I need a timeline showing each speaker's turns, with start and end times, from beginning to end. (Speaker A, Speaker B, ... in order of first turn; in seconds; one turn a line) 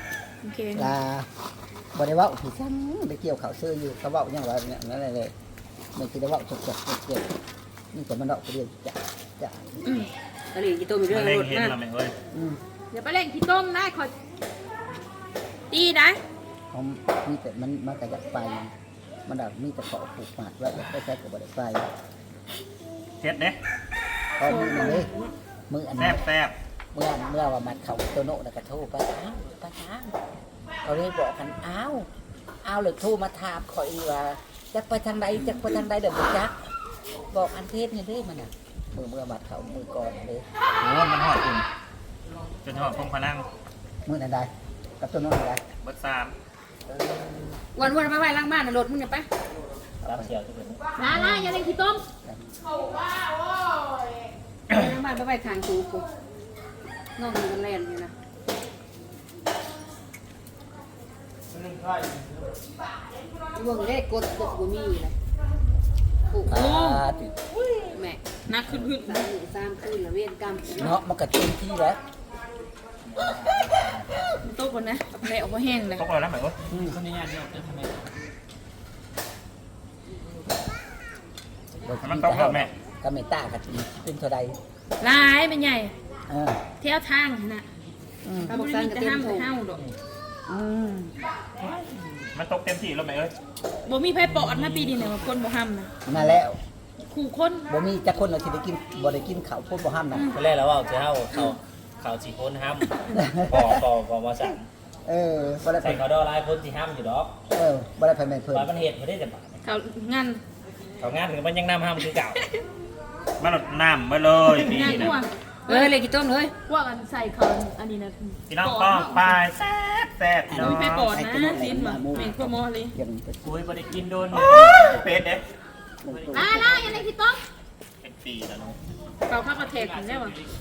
Speaker A: 0.4-0.9
Speaker B: 0.7-1.3
Speaker B: 1.9-5.3
Speaker B: 5.9-7.3
Speaker B: 7.9-9.7
Speaker A: 9.8-10.1
Speaker C: 10.5-11.7
Speaker D: 11.1-12.1
Speaker B: 12.3-12.6
Speaker A: 12.9-14.1
Speaker A: 15.7-16.2
Speaker B: 16.7-18.7
Speaker B: 19.2-21.9
Speaker D: 23.2-23.6
Speaker B: 24.4-25.1
Speaker A: 24.4-25.3
Speaker B: 25.7-26.2
Speaker D: 25.9-26.5
Speaker B: 26.9-30.1
Speaker B: 30.8-32.1
Speaker B: 32.6-36.6
Speaker B: 37.3-40.4
Speaker D: 40.8-41.6
Speaker D: 42.6-43.5
Speaker B: 44.0-45.6
Speaker D: 45.8-46.3
Speaker B: 46.9-47.9
Speaker C: 47.7-49.3
Speaker B: 50.0-50.3
Speaker E: 50.0-50.8
Speaker C: 51.0-52.0
Speaker A: 51.0-52.0
Speaker B: 51.1-51.4
Speaker B: 52.2-52.5
Speaker C: 54.7-56.0
Speaker C: 57.2-58.1
Speaker C: 63.5-65.1
Speaker B: 66.5-67.3
Speaker A: 66.5-67.0
Speaker C: 67.9-68.2
Speaker A: 68.5-69.2
Speaker C: 68.7-70.9
Speaker B: 70.7-72.0
Speaker E: 73.1-74.0
Speaker A: 74.4-76.0
Speaker D: 76.0-76.6
Speaker B: 76.7-77.0
Speaker E: 76.8-78.0
Speaker B: 81.8-84.6
Speaker D: 82.0-82.7
Speaker A: 85.0-85.9
Speaker B: 86.3-86.6
Speaker A: 86.8-87.6
Speaker B: 88.2-88.6
Speaker C: 88.5-89.5
Speaker A: 88.5-89.8
Speaker B: 90.5-91.1
Speaker D: 92.3-93.3
Speaker A: 93.8-96.2
Speaker E: 94.5-95.0
Speaker B: 96.0-96.6
Speaker A: 97.0-97.7
Speaker B: 97.7-100.3
Speaker E: 100.3-104.6
Speaker B: 103.1-103.8
Speaker B: 105.0-106.0
Speaker E: 105.8-107.3
Speaker B: 107.5-108.7
Speaker E: 108.5-109.6
Speaker A: 109.6-110.4
Speaker E: 111.0-112.4
Speaker A: 112.3-112.6
Speaker D: 113.4-115.2
Speaker A: 114.5-115.9
Speaker C: 115.7-116.5
Speaker A: 116.7-119.4
Speaker D: 118.5-121.1
Speaker B: 120.5-123.6
Speaker A: 120.5-122.9
Speaker E: 123.5-125.0
Speaker D: 124.3-125.4
Speaker B: 126.0-126.8
Speaker E: 126.0-127.1
Speaker A: 126.3-127.4
Speaker D: 128.0-128.8
Speaker A: 129.3-130.4
Speaker E: 129.7-130.3